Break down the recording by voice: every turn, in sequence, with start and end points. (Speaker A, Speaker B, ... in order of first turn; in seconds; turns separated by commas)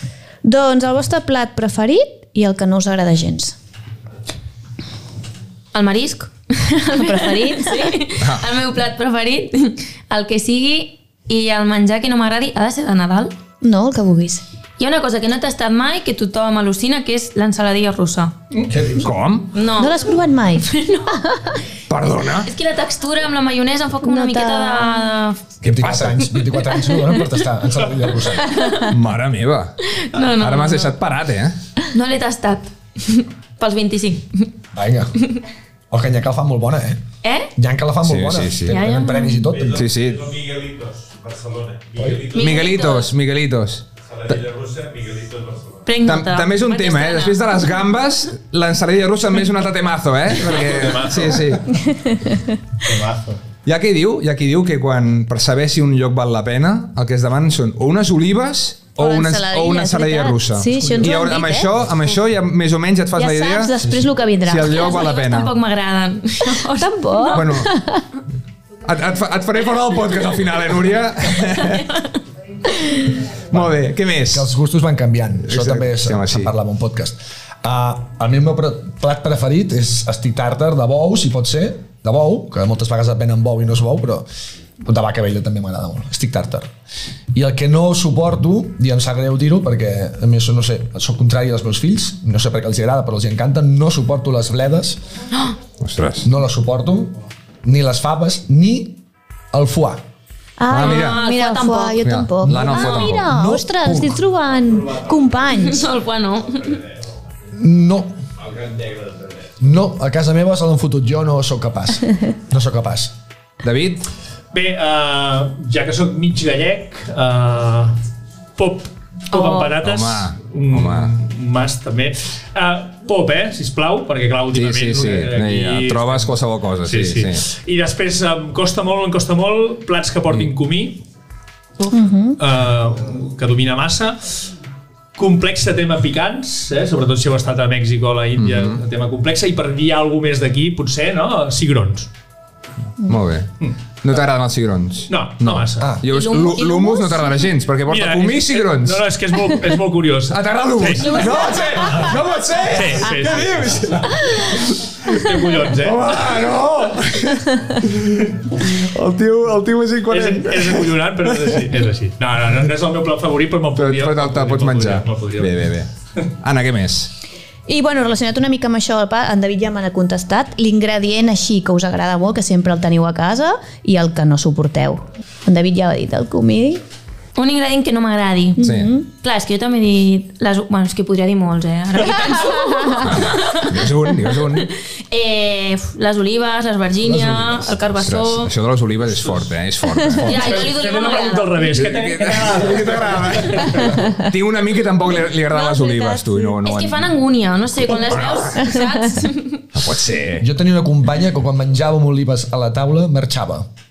Speaker A: 0.4-3.6, Speaker B: 5.7-13.3, Speaker A: 6.9-7.9, Speaker C: 8.2-8.4, Speaker A: 13.6-14.4, Speaker B: 14.8-18.3, Speaker D: 18.7-19.1, Speaker C: 18.9-19.5, Speaker B: 19.5-20.0, Speaker A: 19.8-21.4, Speaker B: 20.6-21.1, Speaker C: 21.9-22.5, Speaker B: 22.4-25.6, Speaker A: 24.0-25.0, Speaker D: 25.6-28.6, Speaker C: 25.6-26.4, Speaker B: 28.4-28.9, Speaker C: 28.9-29.8, Speaker B: 29.9-30.9, Speaker C: 30.3-31.6, Speaker B: 31.9-34.5, Speaker D: 34.7-35.2, Speaker D: 35.9-37.0, Speaker B: 37.2-37.5, Speaker D: 37.6-39.9, Speaker C: 38.0-38.8, Speaker B: 38.7-39.5, Speaker E: 39.5-42.4, Speaker C: 39.7-40.4, Speaker D: 42.0-42.2, Speaker B: 42.3-43.1, Speaker C: 42.3-44.4, Speaker E: 44.1-45.8, Speaker B: 45.9-47.4, Speaker C: 46.0-51.8, Speaker F: 50.3-51.6, Speaker A: 52.0-52.4, Speaker F: 52.8-53.4, Speaker C: 53.6-65.5, Speaker B: 59.0-60.2, Speaker A: 59.1-61.7, Speaker A: 63.2-64.9, Speaker B: 64.6-67.5, Speaker A: 66.6-68.0, Speaker C: 67.3-67.7, Speaker C: 68.8-71.9, Speaker C: 73.5-74.5, Speaker D: 74.3-84.3, Speaker C: 75.5-76.5, Speaker D: 84.8-86.7, Speaker D: 87.3-95.0, Speaker C: 95.8-96.3, Speaker D: 96.2-99.0, Speaker D: 99.5-100.0, Speaker A: 100.6-105.9, Speaker C: 100.7-101.2, Speaker B: 100.7-102.1, Speaker C: 102.0-103.2, Speaker B: 102.6-103.1, Speaker D: 103.2-104.2, Speaker B: 105.5-106.8, Speaker D: 107.5-108.2, Speaker E: 108.5-109.4, Speaker D: 109.6-113.1, Speaker C: 113.6-114.0, Speaker F: 114.5-118.0, Speaker F: 118.6-131.0, Speaker B: 119.3-119.7, Speaker C: 119.7-121.1, Speaker C: 124.5-127.4, Speaker F: 131.8-134.5, Speaker A: 131.9-132.4, Speaker F: 135.2-142.1, Speaker C: 138.4-138.8, Speaker C: 143.1-143.5, Speaker F: 143.6-144.2, Speaker C: 144.0-149.1, Speaker F: 145.1-145.9, Speaker D: 145.8-146.1, Speaker B: 146.1-147.2, Speaker F: 147.9-151.2, Speaker C: 150.3-161.6, Speaker A: 151.4-152.0, Speaker F: 152.7-154.0, Speaker F: 155.1-156.3, Speaker F: 160.1-165.6, Speaker C: 163.8-165.9, Speaker C: 166.4-167.1, Speaker A: 167.7-176.8, Speaker B: 177.4-178.6, Speaker A: 178.6-179.1, Speaker C: 178.6-178.9, Speaker B: 179.2-183.7, Speaker C: 183.0-184.7, Speaker B: 185.1-188.5, Speaker C: 188.0-190.6, Speaker B: 190.2-191.7, Speaker F: 190.2-193.9, Speaker C: 191.7-197.1, Speaker A: 195.5-196.5, Speaker B: 196.6-199.6, Speaker C: 197.9-198.6, Speaker C: 199.7-200.4, Speaker D: 200.4-203.7